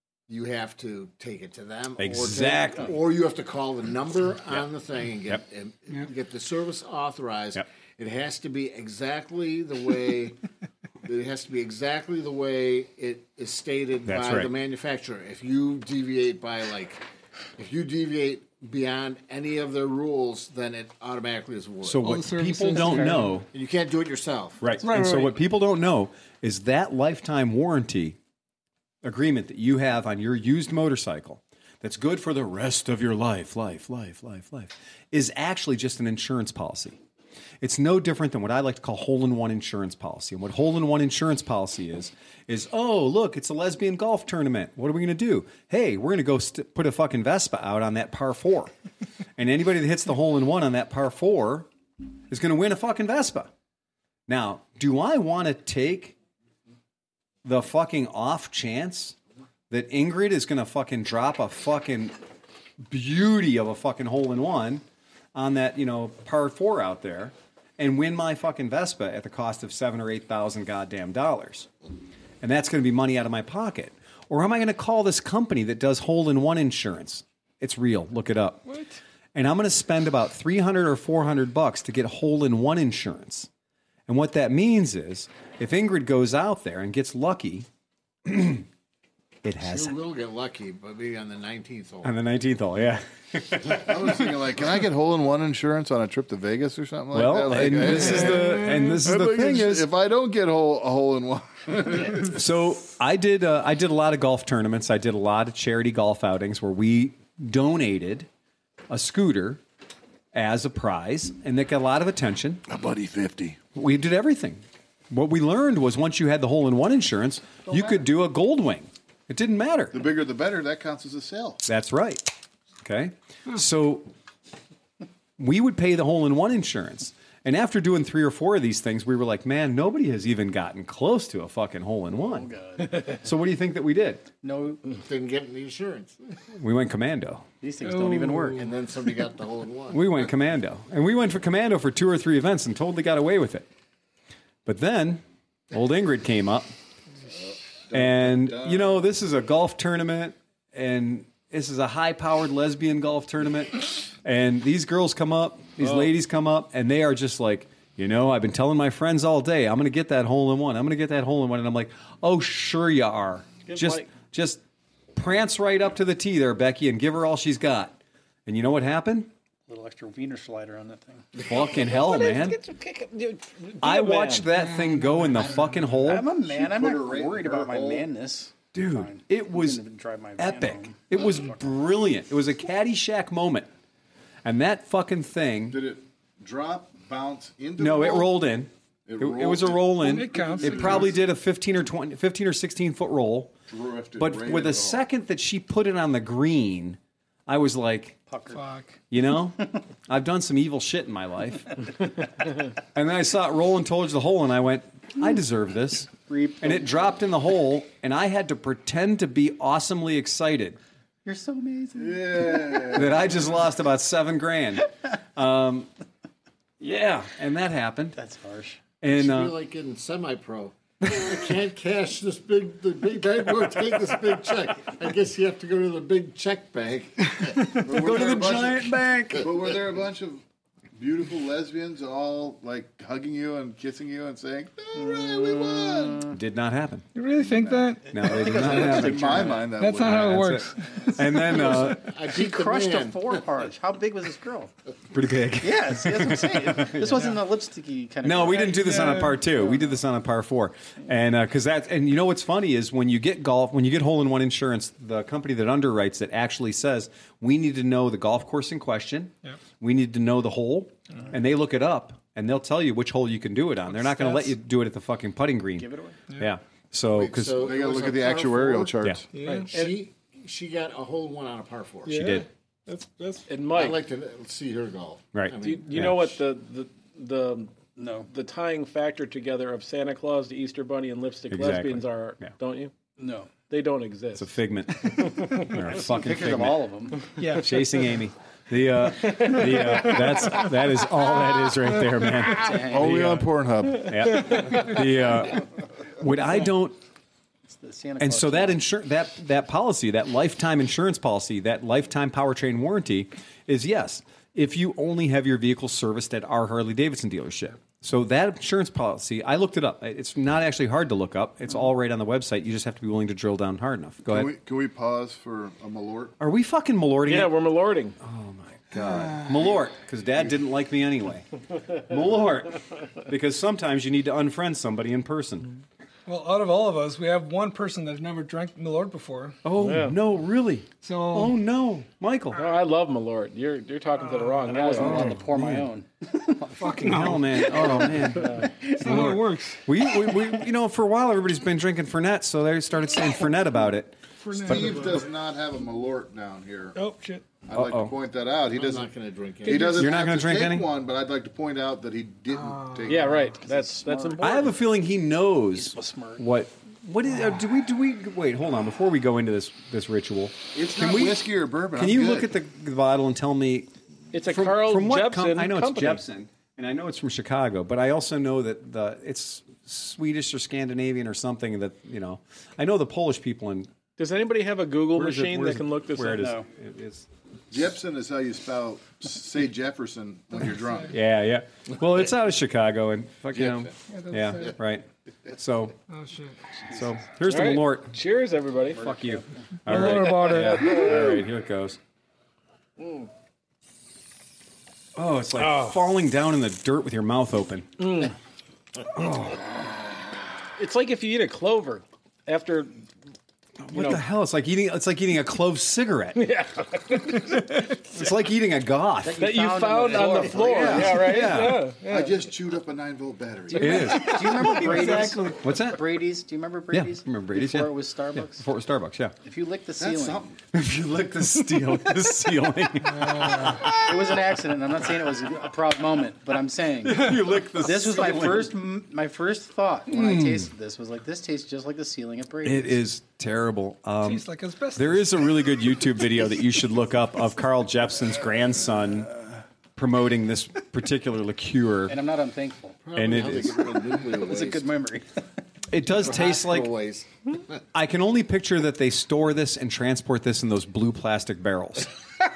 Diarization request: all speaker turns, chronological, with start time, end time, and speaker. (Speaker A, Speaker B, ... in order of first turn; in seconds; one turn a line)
Speaker A: 0.3-10.4
Speaker B: 2.0-2.9
Speaker A: 11.0-17.0
Speaker B: 14.1-14.5
Speaker A: 17.6-22.2
Speaker B: 21.8-23.5
Speaker C: 22.0-23.4
Speaker A: 22.7-24.6
Speaker B: 24.6-28.2
Speaker C: 24.8-25.4
Speaker B: 29.0-37.0
Speaker B: 37.6-48.7
Speaker B: 49.4-51.7
Speaker B: 52.3-53.5
Speaker B: 54.3-56.2
Speaker B: 57.4-59.2
Speaker B: 59.7-62.1
Speaker B: 62.8-64.8
Speaker B: 65.3-71.7
Speaker B: 72.4-78.7
Speaker C: 78.7-78.9
Speaker B: 79.3-83.5
Speaker B: 84.1-87.7
Speaker B: 88.2-88.7
Speaker B: 89.4-90.0
Speaker A: 89.6-92.1
Speaker B: 92.0-94.2
Speaker D: 93.7-102.4
Speaker B: 97.1-99.9
Speaker C: 98.2-98.6
Speaker B: 102.2-108.3
Speaker B: 108.9-109.6
Speaker B: 110.3-112.6
Speaker D: 112.7-113.6
Speaker B: 113.7-120.0
Speaker D: 119.9-121.6
Speaker B: 121.7-122.3
Speaker B: 122.8-124.1
Speaker B: 125.4-132.5
Speaker E: 132.2-133.2
Speaker B: 133.2-134.2
Speaker E: 134.4-134.8
Speaker A: 134.9-136.2
Speaker B: 136.6-137.4
Speaker E: 137.6-138.7
Speaker C: 137.8-138.7
Speaker A: 138.5-140.0
Speaker B: 139.9-143.7
Speaker B: 144.7-146.7
Speaker D: 147.3-149.0
Speaker B: 147.9-164.6
Speaker F: 155.8-156.1
Speaker F: 163.7-164.1
Speaker B: 165.2-169.3
Speaker E: 169.7-171.3
Speaker F: 171.4-174.5
Speaker B: 171.5-172.6
Speaker B: 173.8-176.3
Speaker C: 174.9-175.5
Speaker E: 176.1-181.4
Speaker D: 176.3-178.1
Speaker B: 178.7-179.8
Speaker B: 180.4-183.7
Speaker B: 184.4-185.8
Speaker D: 185.7-188.4
Speaker B: 187.8-193.6
Speaker D: 189.1-191.2
Speaker C: 190.0-191.1
Speaker D: 193.7-195.0
Speaker B: 194.2-198.2
Speaker E: 198.3-198.6
Speaker C: 198.5-198.9
Speaker B: 199.1-201.8
Speaker B: 202.9-210.8
Speaker E: 206.3-207.1
Speaker E: 211.2-213.0
Speaker D: 212.0-213.4
Speaker B: 212.9-215.9
Speaker B: 216.8-218.2
Speaker E: 218.2-218.8
Speaker B: 219.0-219.5
Speaker A: 219.1-227.7
Speaker D: 227.8-230.4
Speaker B: 227.9-229.5
Speaker D: 230.9-236.3
Speaker E: 234.9-236.4
Speaker B: 236.3-237.1
Speaker C: 237.2-238.1
Speaker E: 238.1-239.7
Speaker B: 238.1-242.1
Speaker D: 238.5-240.3
Speaker C: 239.8-241.5
Speaker A: 241.5-243.4
Speaker E: 242.2-244.7
Speaker B: 245.1-247.2
Speaker E: 245.6-249.1
Speaker B: 248.2-267.7
Speaker C: 248.7-249.4
Speaker C: 264.2-264.5
Speaker E: 265.8-266.2
Speaker A: 267.1-268.9
Speaker D: 267.5-269.3
Speaker C: 269.3-269.7
Speaker F: 269.4-269.9
Speaker A: 269.7-272.3
Speaker C: 272.1-273.5
Speaker B: 272.1-272.5
Speaker F: 273.5-274.0
Speaker A: 273.7-276.2
Speaker B: 275.3-276.3
Speaker F: 275.6-277.7
Speaker E: 278.0-278.3
Speaker F: 278.3-282.9
Speaker B: 281.5-282.5
Speaker E: 283.2-283.5
Speaker F: 283.7-284.5
Speaker B: 284.4-286.8
Speaker F: 285.2-285.7
Speaker E: 286.0-287.3
Speaker C: 287.4-287.8
Speaker B: 287.5-293.5
Speaker E: 292.5-293.4
Speaker D: 292.8-294.4
Speaker B: 294.0-295.6
Speaker B: 296.2-297.0
Speaker E: 297.7-298.8
Speaker B: 298.2-314.5
Speaker D: 314.3-316.4
Speaker B: 316.4-317.5
Speaker F: 317.3-318.2
Speaker B: 318.2-321.5
Speaker B: 322.0-325.7
Speaker C: 326.3-329.6
Speaker B: 329.6-332.6
Speaker F: 329.8-330.2
Speaker C: 331.0-331.6
Speaker F: 332.5-335.4
Speaker C: 334.3-334.6
Speaker E: 334.7-337.0
Speaker B: 335.0-335.9
Speaker C: 336.8-338.3
Speaker B: 336.8-344.2
Speaker F: 338.4-338.7
Speaker C: 338.9-339.8
Speaker C: 344.4-345.3
Speaker D: 344.5-347.0
Speaker B: 344.7-345.0
Speaker C: 346.9-347.5
Speaker D: 347.6-349.1
Speaker B: 347.7-348.1
Speaker A: 348.7-350.2
Speaker D: 349.6-353.4
Speaker B: 350.0-350.9
Speaker C: 352.5-353.1
Speaker F: 353.1-354.8
Speaker E: 353.4-354.6
Speaker B: 354.4-361.4
Speaker E: 355.7-356.4
Speaker D: 360.7-362.5
Speaker B: 361.9-363.9
Speaker F: 364.3-366.2
Speaker B: 364.4-373.9
Speaker F: 374.2-376.5
Speaker B: 375.1-377.3
Speaker E: 376.2-376.7
Speaker D: 377.7-381.1
Speaker B: 381.1-385.9
Speaker D: 383.5-383.9
Speaker C: 384.1-384.7
Speaker C: 386.1-386.6
Speaker B: 386.9-388.1
Speaker F: 387.5-389.1
Speaker B: 389.0-392.0
Speaker E: 389.0-389.4
Speaker C: 389.9-391.2
Speaker F: 389.9-391.1
Speaker F: 393.0-393.3
Speaker B: 395.1-398.1
Speaker F: 395.6-396.0
Speaker F: 398.0-398.3
Speaker B: 399.1-399.7
Speaker F: 400.8-403.0
Speaker B: 403.8-406.4
Speaker F: 403.9-404.2
Speaker F: 406.4-407.9
Speaker B: 408.1-409.4
Speaker E: 409.2-411.4
Speaker F: 409.4-412.3
Speaker B: 410.6-411.9
Speaker D: 412.0-414.3
Speaker E: 413.7-418.6
Speaker B: 413.8-416.1
Speaker B: 416.9-419.3
Speaker E: 419.4-420.6
Speaker D: 420.0-420.5
Speaker B: 420.7-424.0
Speaker C: 423.1-423.9
Speaker E: 423.8-433.0
Speaker B: 427.0-428.7
Speaker B: 430.1-430.7
Speaker B: 432.6-439.3
Speaker C: 434.2-435.4
Speaker B: 440.0-442.1
Speaker E: 442.1-443.0
Speaker A: 443.0-444.9
Speaker B: 443.1-443.8
Speaker E: 444.2-445.4
Speaker B: 445.9-446.9
Speaker A: 446.2-447.3
Speaker B: 447.9-452.1